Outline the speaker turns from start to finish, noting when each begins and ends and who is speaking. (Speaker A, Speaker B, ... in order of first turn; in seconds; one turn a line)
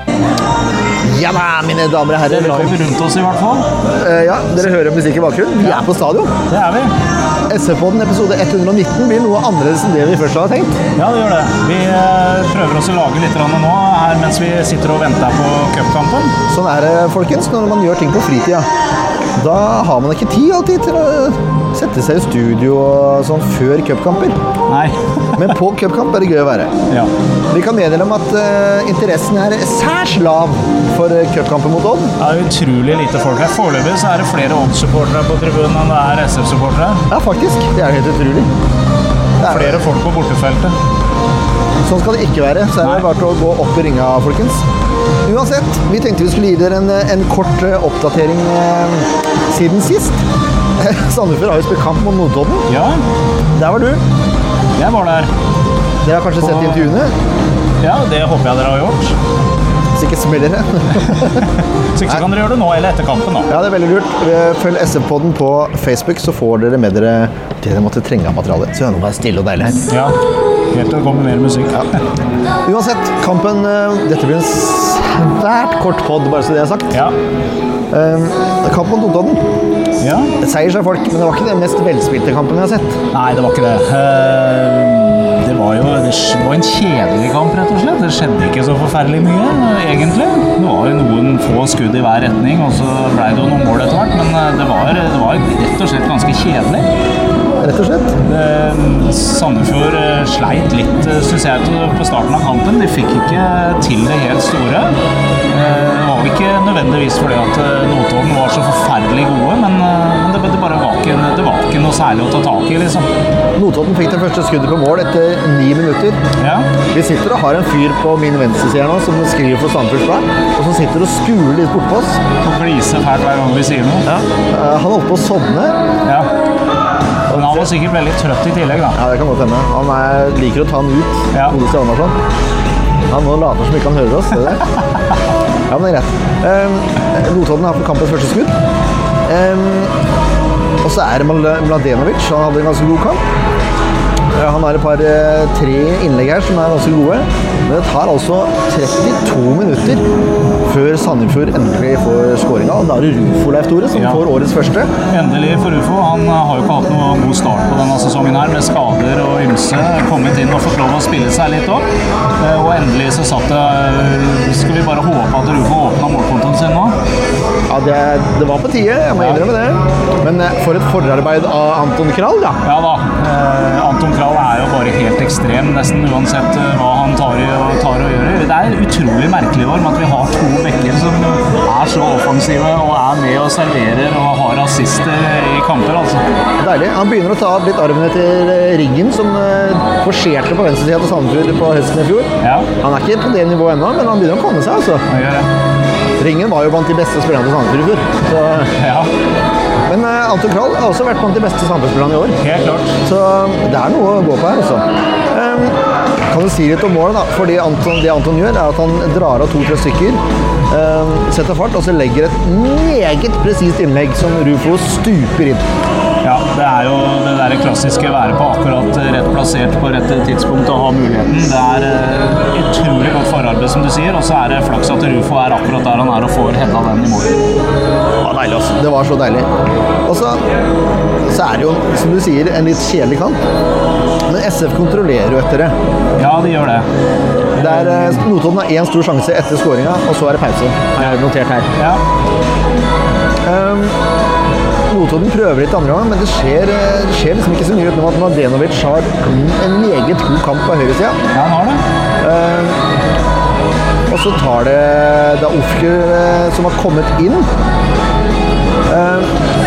Speaker A: 1.0-2.9
Speaker B: 2.3-3.6
Speaker A: 4.0-6.3
Speaker B: 6.5-6.9
Speaker A: 7.5-10.7
Speaker B: 11.0-16.3
Speaker A: 16.5-18.7
Speaker A: 19.4-24.4
Speaker B: 24.7-25.5
Speaker A: 25.4-26.7
Speaker A: 27.5-32.2
Speaker B: 32.2-37.0
Speaker A: 37.1-38.5
Speaker A: 39.4-39.9
Speaker B: 39.5-40.8
Speaker A: 41.9-44.6
Speaker A: 45.2-50.2
Speaker A: 50.8-52.7
Speaker B: 52.7-53.0
Speaker A: 53.5-54.0
Speaker B: 54.8-55.3
Speaker A: 56.0-57.1
Speaker B: 56.4-57.0
Speaker B: 57.8-59.1
Speaker A: 60.0-61.5
Speaker B: 61.2-63.5
Speaker A: 63.5-69.8
Speaker B: 69.9-70.1
Speaker B: 70.7-71.9
Speaker A: 72.6-77.0
Speaker A: 77.9-79.4
Speaker B: 80.0-80.3
Speaker A: 80.4-83.0
Speaker B: 83.1-96.9
Speaker A: 97.6-98.2
Speaker B: 98.2-104.9
Speaker B: 105.5-113.1
Speaker A: 113.6-116.2
Speaker B: 116.4-116.7
Speaker A: 116.9-122.2
Speaker B: 122.4-124.0
Speaker A: 124.1-125.8
Speaker A: 127.3-127.7
Speaker B: 127.3-129.0
Speaker A: 128.9-132.2
Speaker A: 133.1-134.7
Speaker A: 135.7-138.5
Speaker A: 139.3-139.9
Speaker A: 140.8-143.2
Speaker A: 144.3-150.0
Speaker A: 150.6-154.9
Speaker B: 153.9-154.2
Speaker B: 155.1-161.8
Speaker B: 162.4-166.9
Speaker A: 167.7-172.6
Speaker B: 169.2-169.4
Speaker B: 172.6-186.2
Speaker A: 186.6-195.1
Speaker B: 192.4-192.7
Speaker B: 195.1-195.5
Speaker A: 196.2-198.7
Speaker B: 198.8-199.1
Speaker A: 199.9-202.4
Speaker B: 202.4-202.9
Speaker A: 203.0-205.8
Speaker A: 206.3-215.6
Speaker B: 216.2-227.3
Speaker A: 228.2-229.5
Speaker A: 230.1-230.4
Speaker A: 231.2-233.4
Speaker A: 234.3-235.8
Speaker B: 236.2-236.9
Speaker B: 237.5-238.2
Speaker A: 237.6-241.7
Speaker B: 241.8-242.0
Speaker A: 243.4-244.0
Speaker A: 244.9-251.2
Speaker B: 251.3-251.8
Speaker A: 252.2-252.8
Speaker A: 254.1-257.5
Speaker A: 258.9-259.3